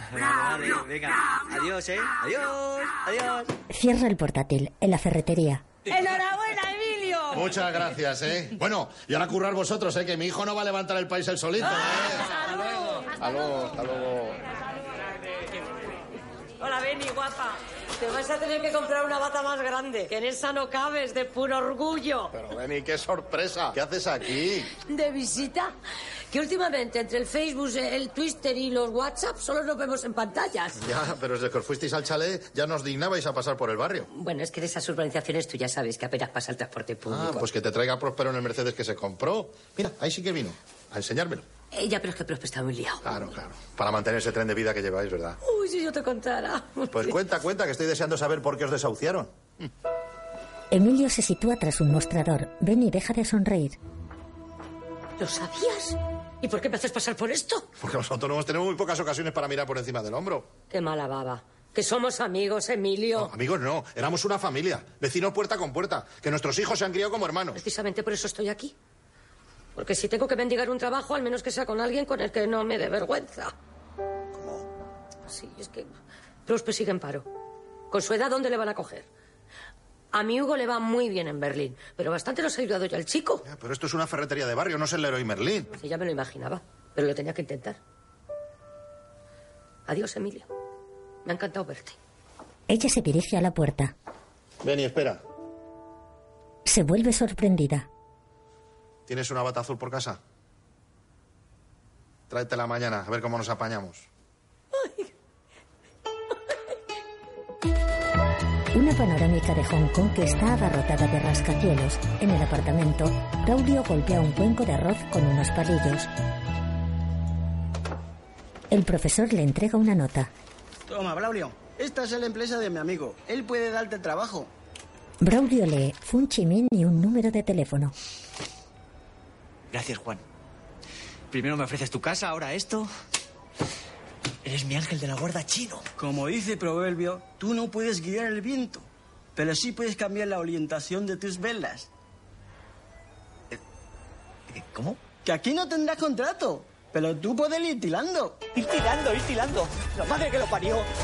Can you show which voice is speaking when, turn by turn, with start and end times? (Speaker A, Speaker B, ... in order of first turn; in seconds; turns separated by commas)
Speaker A: 0.1-3.5, Speaker B: 3.7-5.6, Speaker C: 7.3-12.3, Speaker C: 13.2-14.3, Speaker D: 16.6-22.3, Speaker C: 22.3-24.7, Speaker D: 24.9-25.7, Speaker D: 26.3-30.8, Speaker C: 30.8-34.1, Speaker D: 34.1-37.5, Speaker C: 37.0-41.5, Speaker D: 41.7-43.0, Speaker C: 43.0-45.4, Speaker D: 45.4-47.2, Speaker C: 46.9-49.7, Speaker B: 50.7-53.8, Speaker D: 55.2-57.7, Speaker C: 57.8-60.5, Speaker D: 60.7-63.3, Speaker C: 63.1-67.6, Speaker D: 67.5-68.7, Speaker D: 69.8-73.5, Speaker C: 74.4-74.6, Speaker D: 75.3-75.9, Speaker D: 76.5-77.3, Speaker D: 77.9-79.0, Speaker D: 80.1-83.4, Speaker C: 83.4-85.7, Speaker D: 85.8-87.8, Speaker D: 89.9-90.5, Speaker D: 91.2-92.0, Speaker B: 92.7-93.9, Speaker C: 94.6-95.2, Speaker B: 96.7-97.9, Speaker C: 99.1-100.2, Speaker C: 102.3-104.1, Speaker D: 104.8-105.0, Speaker B: 108.7-116.1, Speaker B: 118.7-120.3, Speaker E: 120.9-124.5, Speaker B: 125.2-127.9, Speaker A: 129.7-130.2, Speaker A: 131.3-132.9, Speaker A: 134.4-135.8, Speaker E: 136.0-141.9, Speaker A: 144.5-145.0, Speaker E: 145.2-148.4, Speaker A: 148.5-150.9